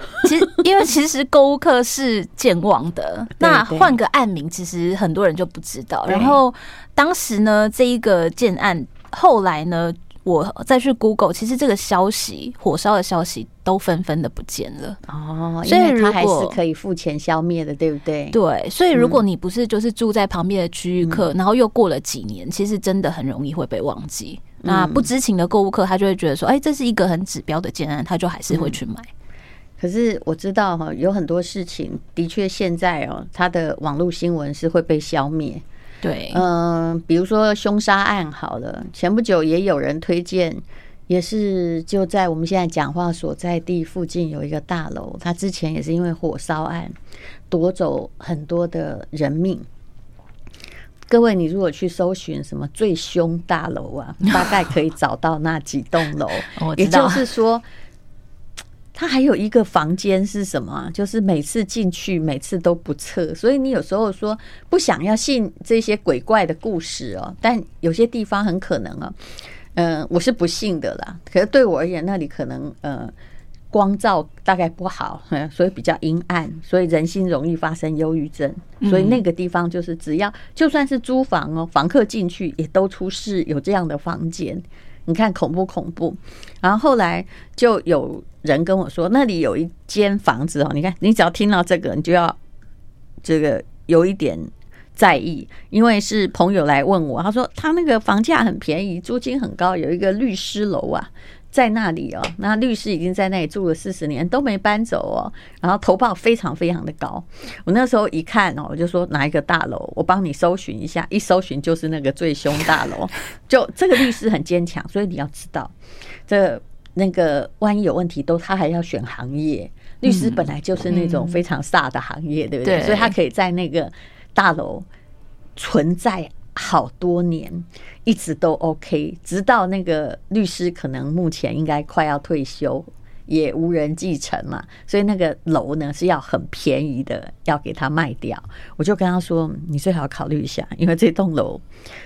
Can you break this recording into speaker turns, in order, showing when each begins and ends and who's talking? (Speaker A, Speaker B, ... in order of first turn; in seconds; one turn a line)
Speaker A: 0.2-15.0
Speaker B: 3.4-3.9
Speaker B: 6.1-6.4
Speaker B: 15.1-18.4
Speaker A: 15.6-16.6
Speaker A: 18.3-29.1
Speaker B: 18.9-19.2
Speaker B: 24.6-25.1
Speaker B: 28.5-28.8
Speaker B: 29.8-35.6
Speaker A: 36.0-36.4
Speaker B: 36.3-46.9
Speaker B: 47.5-49.6
Speaker B: 51.1-57.6
Speaker A: 56.5-57.2
Speaker B: 58.9-73.1
Speaker B: 73.7-92.4
Speaker A: 78.8-79.2
Speaker B: 93.2-115.7
Speaker B: 116.3-124.8
Speaker A: 120.1-120.4
Speaker A: 122.6-123.1
Speaker B: 125.6-141.6